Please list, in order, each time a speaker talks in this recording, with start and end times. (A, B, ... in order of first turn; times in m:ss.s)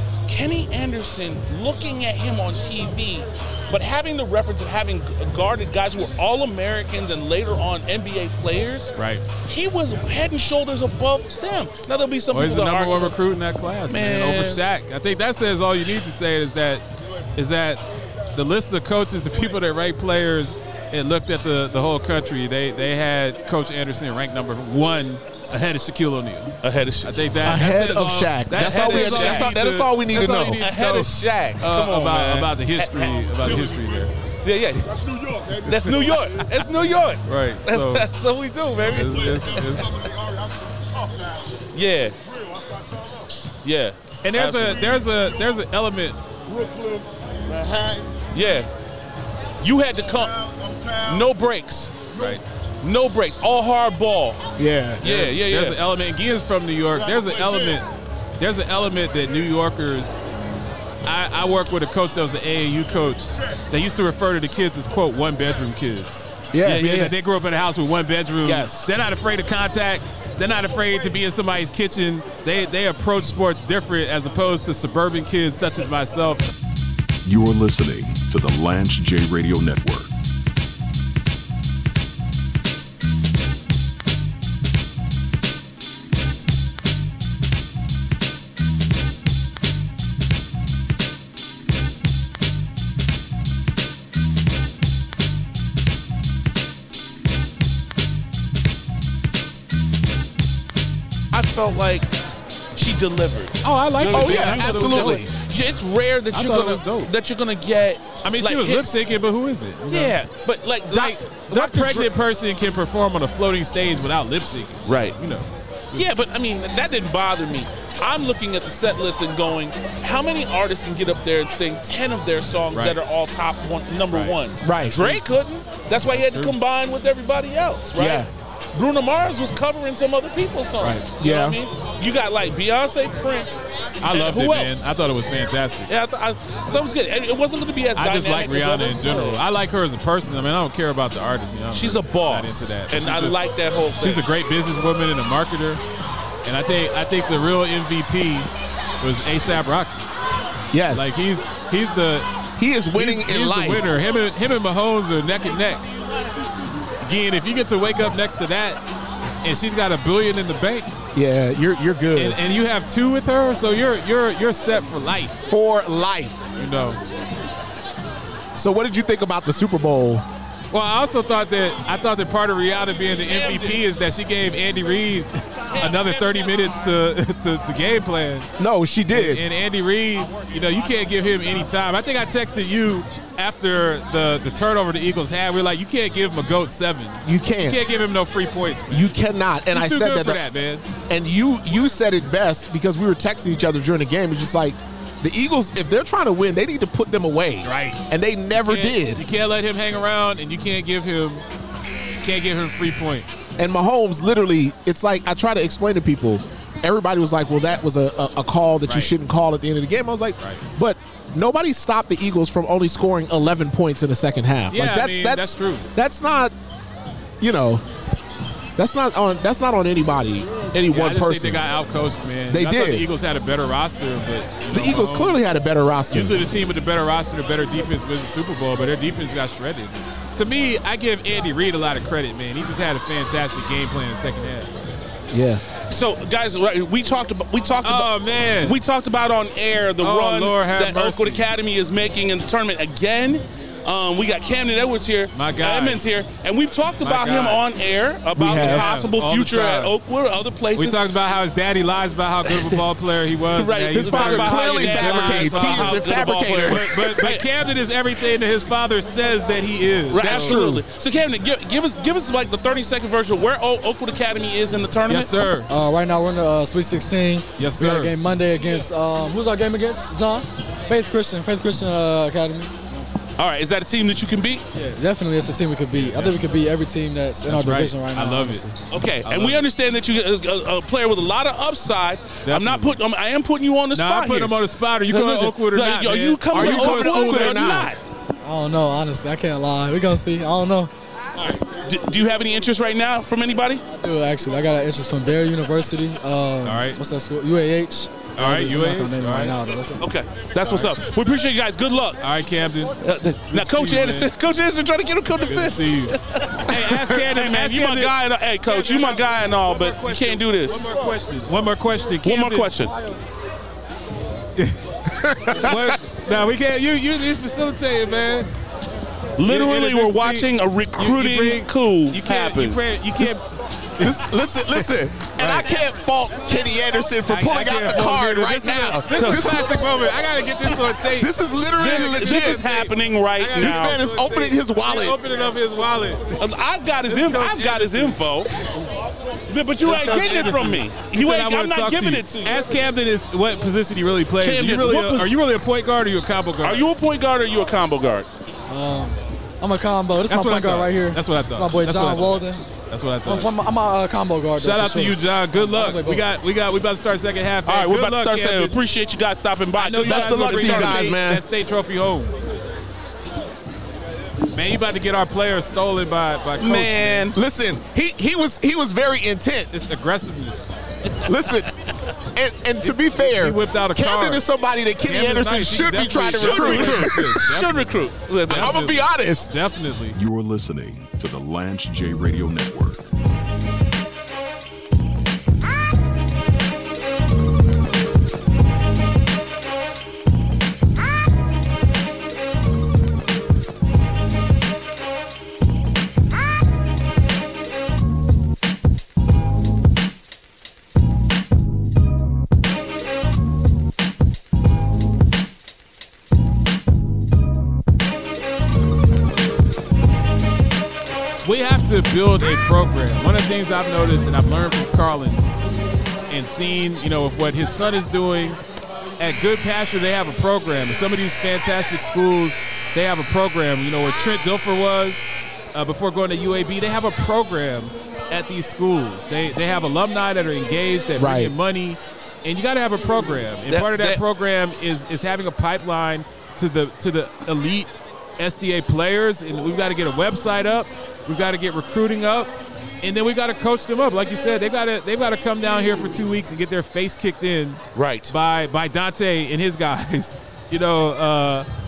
0:00.3-0:13.2 A
0:09.0-0:09.2 B
0:12.3-0:34.1 B
0:13.9-0:14.6 A
0:26.6-0:27.2 A
0:27.4-0:30.6 C
0:28.5-0:29.6 A
0:30.6-0:33.8 A
0:33.4-0:33.8 D
0:34.4-0:34.9 A
0:34.8-0:36.5 D
0:35.6-0:39.6 A
0:37.2-0:38.1 B
0:38.8-0:39.9 B
0:38.9-0:41.6 D
0:41.7-0:42.2 A
0:42.2-0:43.4 D
0:43.6-0:44.8 A
0:44.2-0:46.2 B
0:44.5-0:45.6 D
0:46.5-0:48.2 D
0:48.3-0:48.7 A
0:49.6-0:50.3 A
0:50.1-0:51.4 D
0:51.0-0:52.0 A
0:52.1-0:52.4 D
0:52.2-0:52.4 B
0:52.8-0:54.4 A
0:54.6-0:55.2 C
0:55.0-0:55.8 A
0:55.0-1:00.2 B
0:56.9-0:57.8 D
1:01.0-1:16.5 B
1:06.5-1:06.8 C
1:06.6-1:07.1 A
1:08.4-1:08.9 C
1:17.2-1:20.1 E
1:41.3-1:42.1 A
1:42.7-1:48.9 A
1:43.6-1:45.2 B
1:44.0-1:45.3 C
1:46.3-1:47.1 B
1:48.2-1:50.2 B
1:49.9-1:52.1 A
1:50.9-1:56.1 B
1:54.8-1:55.2 A
1:55.9-2:15.0 A
2:04.1-2:04.4 B
2:04.6-2:05.2 C
2:06.1-2:06.5 B
2:08.0-2:08.3 C
2:10.8-2:11.6 C
2:14.0-2:15.9 B
2:15.9-2:19.4 A
2:18.0-2:23.4 B
2:21.7-2:24.3 A
2:24.0-2:25.8 B
2:26.4-2:30.1 B
2:30.7-2:31.2 C
2:30.9-2:32.3 B
2:32.6-2:33.9 C
2:32.9-2:35.8 B
2:37.0-2:38.8 B
2:39.4-2:40.9 B
2:41.1-2:42.4 C
2:42.2-2:45.3 B
2:45.5-2:46.4 C
2:46.6-2:47.0 B
2:48.6-2:50.2 C
2:50.7-2:58.5 B
2:53.2-2:53.8 A
2:58.6-2:59.4 C
2:59.1-3:09.2 B
3:07.2-3:07.9 C
3:08.9-3:10.4 C
3:09.7-3:10.9 B
3:11.1-3:19.2 C
3:17.6-3:18.0 B
3:18.6-3:21.5 B
3:22.2-3:23.3 B
3:23.6-3:36.5 C
3:28.9-3:29.1 B
3:34.7-3:35.9 B
3:37.4-3:37.8 C
3:38.8-3:41.7 C
3:40.9-3:45.4 B
3:42.5-3:43.1 C
3:44.7-3:46.4 C
3:46.1-3:54.7 B
3:55.3-3:55.6 C
3:55.9-4:11.0 A
3:57.8-3:58.8 B
4:00.0-4:01.5 B
4:05.3-4:06.0 B
4:07.0-4:07.6 B
4:08.4-4:08.9 C
4:08.4-4:10.0 B
4:10.7-4:16.1 B
4:12.5-4:12.8 A
4:13.5-4:17.5 A
4:13.9-4:17.3 C
4:16.6-4:20.6 B
4:20.1-4:25.3 A
4:20.2-4:20.8 C
4:25.1-4:25.7 B
4:25.6-4:33.2 F
4:27.6-4:28.2 B
4:33.4-4:34.6 A
4:34.7-4:38.8 F
4:35.9-4:36.4 B
4:37.5-4:38.7 B
4:38.9-4:48.0 A
4:39.2-4:39.6 B
4:42.4-4:43.0 B
4:43.9-4:47.8 B
4:46.5-4:47.9 C
4:48.4-4:50.9 F
4:51.4-4:51.6 B
4:51.8-4:53.8 A
4:53.9-5:00.0 F
4:56.6-4:57.0 B
4:58.4-4:59.6 B
5:00.0-5:02.2 A
5:00.6-5:00.9 B
5:02.2-5:02.9 B
5:03.0-5:11.0 A
5:03.5-5:04.3 B
5:05.4-5:12.7 B
5:12.2-5:13.1 A
5:15.1-5:16.0 C
5:15.5-5:18.5 B
5:19.4-5:22.8 A
5:19.4-5:23.5 B
5:24.0-5:25.7 B
5:24.0-5:29.6 C
5:27.2-5:36.4 B
5:29.1-5:29.5 A
5:31.0-5:32.7 C
5:31.8-5:34.0 A
5:33.5-5:35.2 C
5:36.4-5:38.5 A
5:37.0-5:38.9 B
5:39.5-5:42.6 A
5:39.8-5:46.9 B
5:44.4-5:45.3 A
5:46.6-5:48.3 A
5:48.7-5:52.7 F
5:50.3-5:53.5 B
5:53.2-5:56.3 F
5:54.6-5:58.8 B
5:57.7-6:01.2 A
5:59.8-6:02.4 B
6:00.0-6:01.4 C
6:04.5-6:07.3 B
6:06.6-6:07.4 A
6:07.3-6:09.7 C
6:09.7-6:10.8 B
6:11.3-6:11.7 C
6:12.3-6:17.4 C
6:12.8-6:14.5 B
6:15.0-6:17.9 B
6:16.3-6:18.8 A
6:18.5-6:20.2 B
6:18.5-6:19.6 C
6:20.1-6:23.1 E
6:51.4-6:55.4 B
6:56.3-6:58.6 B
6:59.2-7:31.7 B
7:11.2-7:11.6 C
7:13.7-7:14.2 A
7:27.9-7:28.3 A